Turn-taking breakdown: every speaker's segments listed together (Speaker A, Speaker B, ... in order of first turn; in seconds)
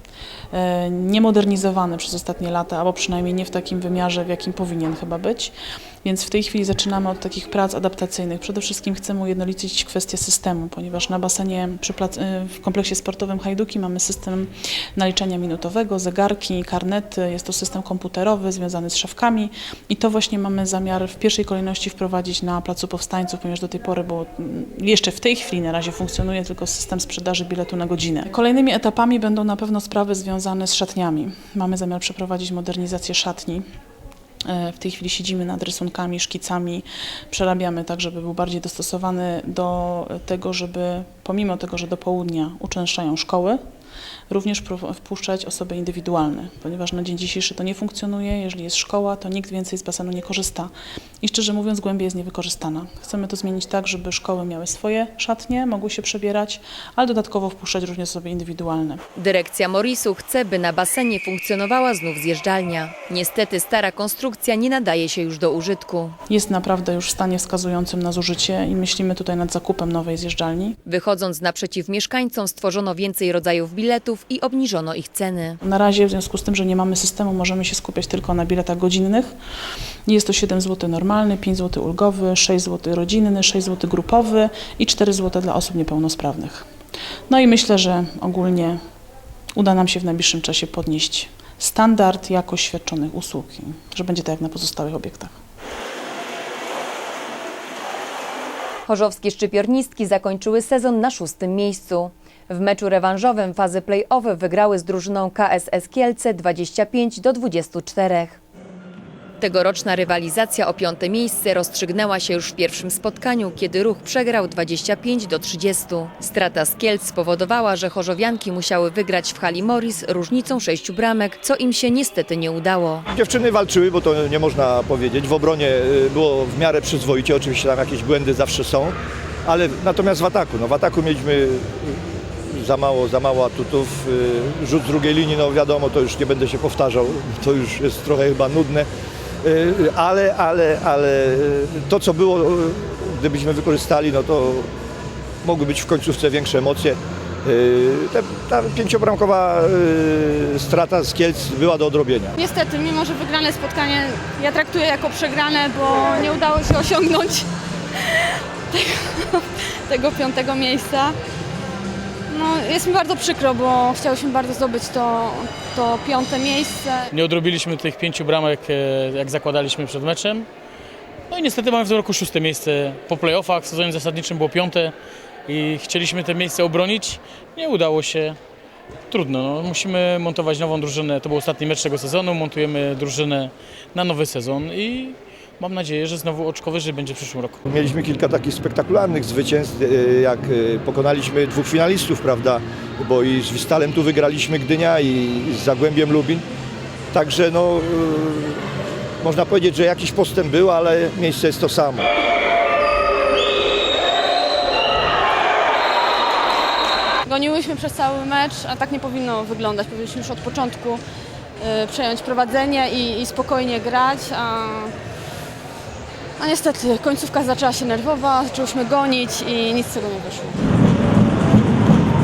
Speaker A: 0.5-33.6, 34.5-43.6, 44.3-50.7, 51.2-59.0, 66.3-70.8, 75.6-79.3, 80.1-86.7, 87.3-88.8, 89.6-95.3
Speaker B: 59.2-66.2, 70.8-75.6, 98.9-108.4, 109.4-123.1
Speaker C: 123.1-128.9, 129.5-138.9, 139.4-144.7, 145.4-152.4, 187.6-196.5, 197.1-202.1
Speaker D: 152.4-161.2, 162.3-167.1, 207.2-211.0, 211.6-214.9, 216.4-220.6
Speaker E: 167.1-170.5, 171.3-174.9, 175.5-178.4, 179.1-187.6